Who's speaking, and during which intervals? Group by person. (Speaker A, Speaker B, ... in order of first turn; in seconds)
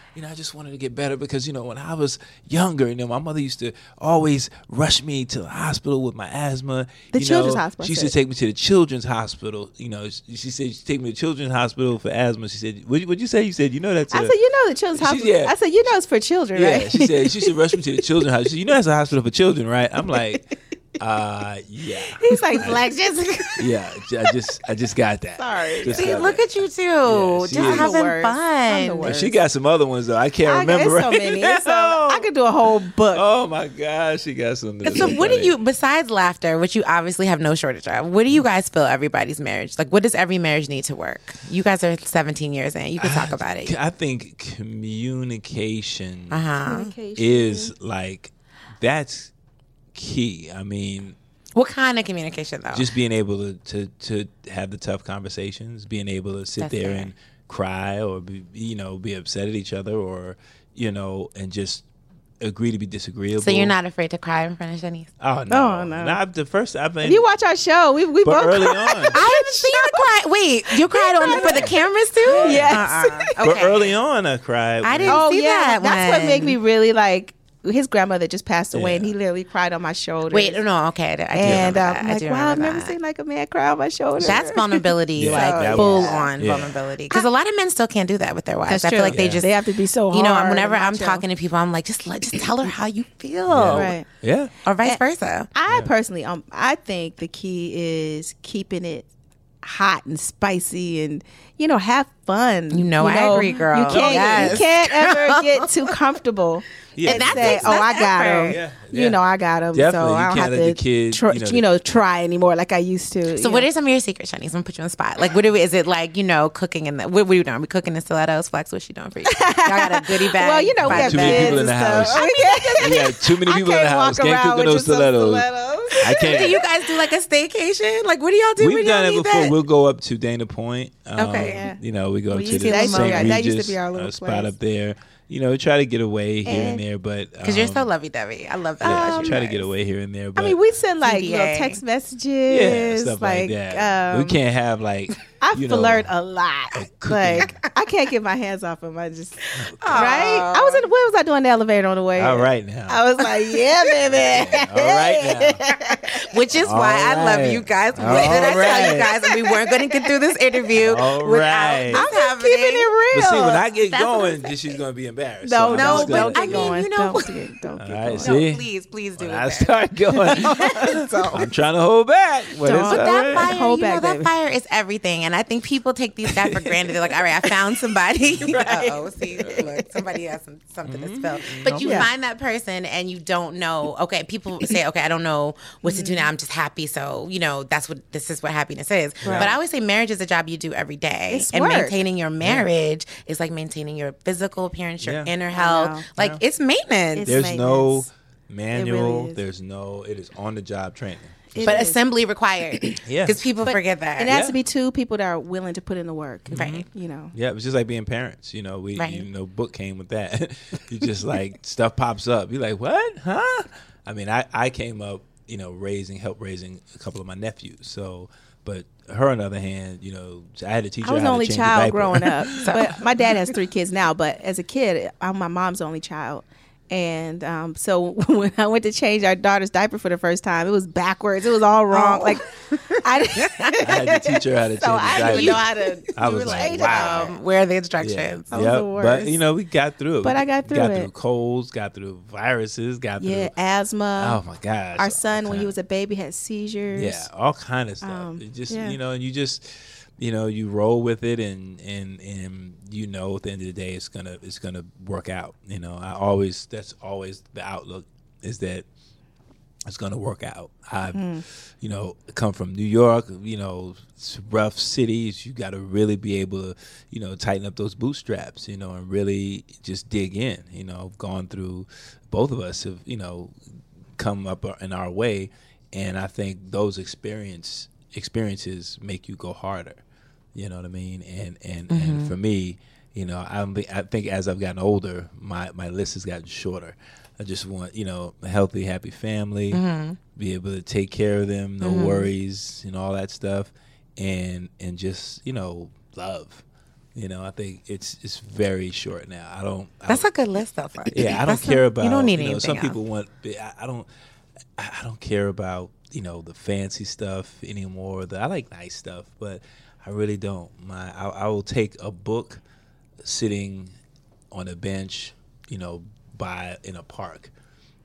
Speaker A: 0.1-14.4, 14.9-15.6, 16.5-22.9, 23.6-26.5, 27.1-28.1, 29.0-32.3, 33.1-35.5, 43.0-46.5, 47.1-49.3, 49.9-51.2, 52.7-61.9, 62.4-63.8, 65.2-67.3, 68.2-69.2, 71.2-75.3, 78.7-79.1, 81.4-81.9, 85.2-86.8, 89.1-89.5, 93.5-94.5, 103.3-104.7, 107.0-111.8, 120.8-126.7, 128.6-137.9, 138.8-140.6, 142.5-146.1, 146.8-147.7, 149.6-150.4, 152.1-153.1, 153.8-155.6, 156.5-159.1, 160.8-162.1, 163.1-166.8, 167.8-173.6, 176.4-177.6, 178.2-179.8, 180.8-182.1, 189.2-189.6, 192.4-192.7, 195.0-195.3, 196.1-196.4, 197.3-201.9, 203.0-203.5, 204.3-204.6, 206.5-223.6, 233.8-237.4, 238.0-243.5, 244.2-245.8, 246.9-258.9, 259.9-273.6, 274.2-280.0, 280.6-296.6, 297.1-300.3, 301.1-304.1, 304.8-312.6, 313.2-313.9, 314.5-317.5
Speaker B: 7.1-8.1, 14.1-17.6, 22.0-23.8, 25.4-26.2, 27.5-29.4, 30.4-33.2, 46.6-47.7, 65.5-66.2, 67.0-70.2, 70.7-71.7, 72.2-73.4, 75.1-80.6, 81.3-86.3, 88.7-91.2, 93.7-94.1, 95.5-99.1, 99.6-113.7, 119.2-126.7, 131.3-134.5, 136.4-136.8, 138.9-139.5, 140.4-144.4, 145.3-156.2, 158.1-160.1, 161.9-164.5, 165.4-168.4, 170.2-171.4, 172.6-174.3, 181.8-182.1, 185.8-186.3, 191.3-192.0, 195.5-196.1, 197.2-198.1, 198.7-199.4, 201.5-202.0, 203.7-207.3, 221.0-232.5, 233.0-237.3, 238.5-239.4, 240.2-241.1, 243.2-244.4, 245.0-247.3, 248.0-249.0, 261.1-261.4
Speaker C: 25.9-29.1, 34.8-43.8, 46.3-46.9, 51.5-52.9, 56.6-57.1, 63.4-65.1, 69.1-74.0, 74.8-76.6, 80.3-83.0, 84.2-89.5, 90.1-93.9, 94.6-95.5, 102.7-105.9, 107.1-108.6, 113.4-122.9, 126.0-129.6, 131.2-131.7, 132.6-133.4, 137.4-139.7, 141.0-141.8, 149.8-150.9, 156.1-162.9, 165.7-167.4, 168.2-169.8, 170.6-170.9, 172.8-197.4, 201.6-204.3, 206.5-206.8, 209.0-209.2, 222.5-223.3, 231.9-233.8, 235.1-238.6, 281.9-282.3, 289.7-290.2, 291.8-292.3, 300.1-303.0